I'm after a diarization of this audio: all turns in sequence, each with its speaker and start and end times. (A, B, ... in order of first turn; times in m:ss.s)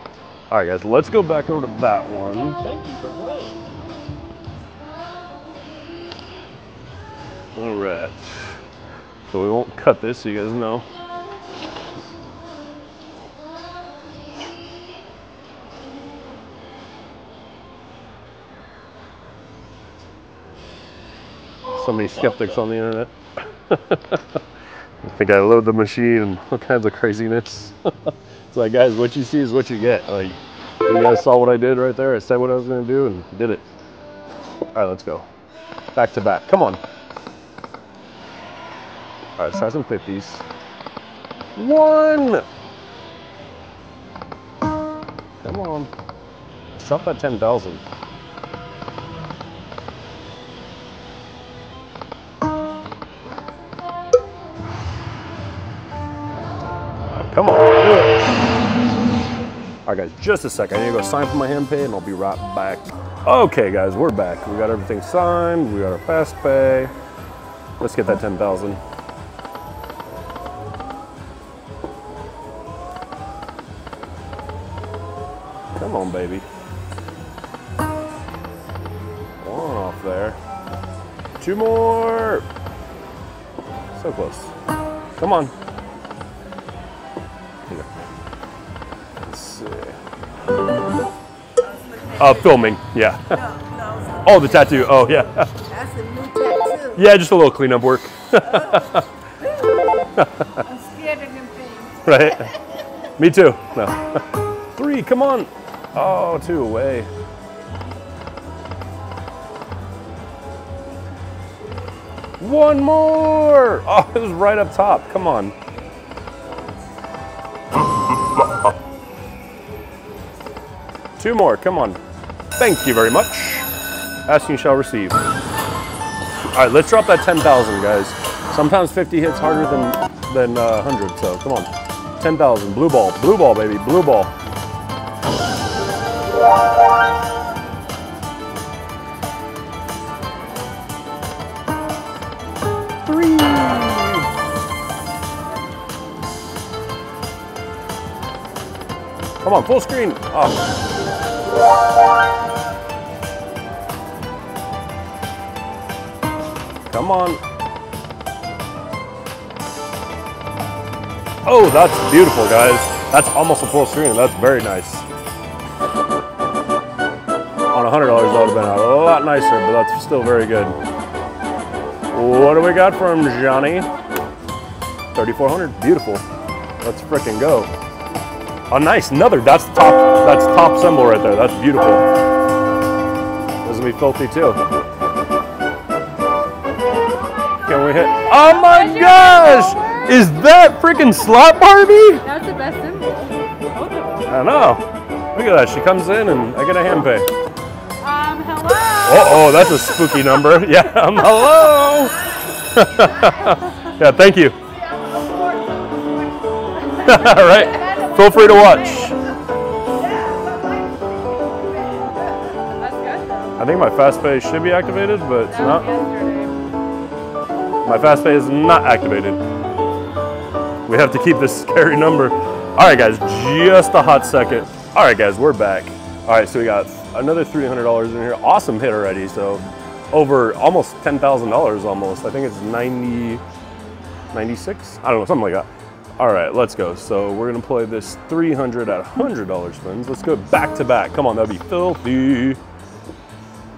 0:00.5-0:03.4 A
0:07.6-0:08.5 A
0:09.3-0:10.8 A
0:21.8-0:24.4 A
0:25.0-0:33.6 A
0:34.7-0:35.3 A
0:35.9-0:36.8 A
0:39.4-0:40.4 A
0:41.6-0:42.5 A
0:45.4-0:45.9 A
0:46.8-0:47.8 A
0:57.1-0:58.2 A
0:59.9-1:06.9 A
1:07.8-1:08.8 A
1:15.8-1:16.4 A
1:19.4-1:20.4 A
1:21.4-1:22.5 A
1:24.0-1:24.5 A
1:25.2-1:25.5 A
1:29.2-1:30.0 A
1:32.1-1:33.6 A
1:34.1-1:35.6 A
1:35.7-1:36.8 B
1:36.8-1:39.1 A
1:40.2-1:40.6 A
1:40.7-1:42.0 C
1:40.9-1:41.6 B
1:42.0-1:42.6 A
1:43.2-1:44.2 A
1:44.7-1:47.1 A
1:52.4-1:55.5 A
2:01.2-2:02.0 A
2:02.6-2:03.7 A
2:04.3-2:05.2 A
2:06.5-2:14.3 A
2:23.0-2:24.3 A
2:29.4-2:30.6 A
2:36.9-2:37.4 A
2:41.4-2:45.1 A
2:47.7-2:50.8 A
2:52.1-2:53.9 A
2:55.1-2:56.2 A
2:56.8-2:57.7 A
2:58.7-3:02.0 A
3:03.6-3:04.6 A
3:07.6-3:12.3 A
3:08.5-3:10.1 C
3:12.2-3:14.2 C
3:14.2-3:17.3 A
3:18.0-3:19.6 C
3:19.0-3:24.6 A
3:25.0-3:26.4 B
3:26.9-3:29.2 A
3:27.8-3:29.1 C
3:30.3-3:30.9 B
3:32.7-3:33.6 C
3:33.6-3:35.9 A
3:35.5-3:36.7 C
3:37.8-3:39.4 A
3:40.9-3:53.4 A
3:54.3-4:02.6 A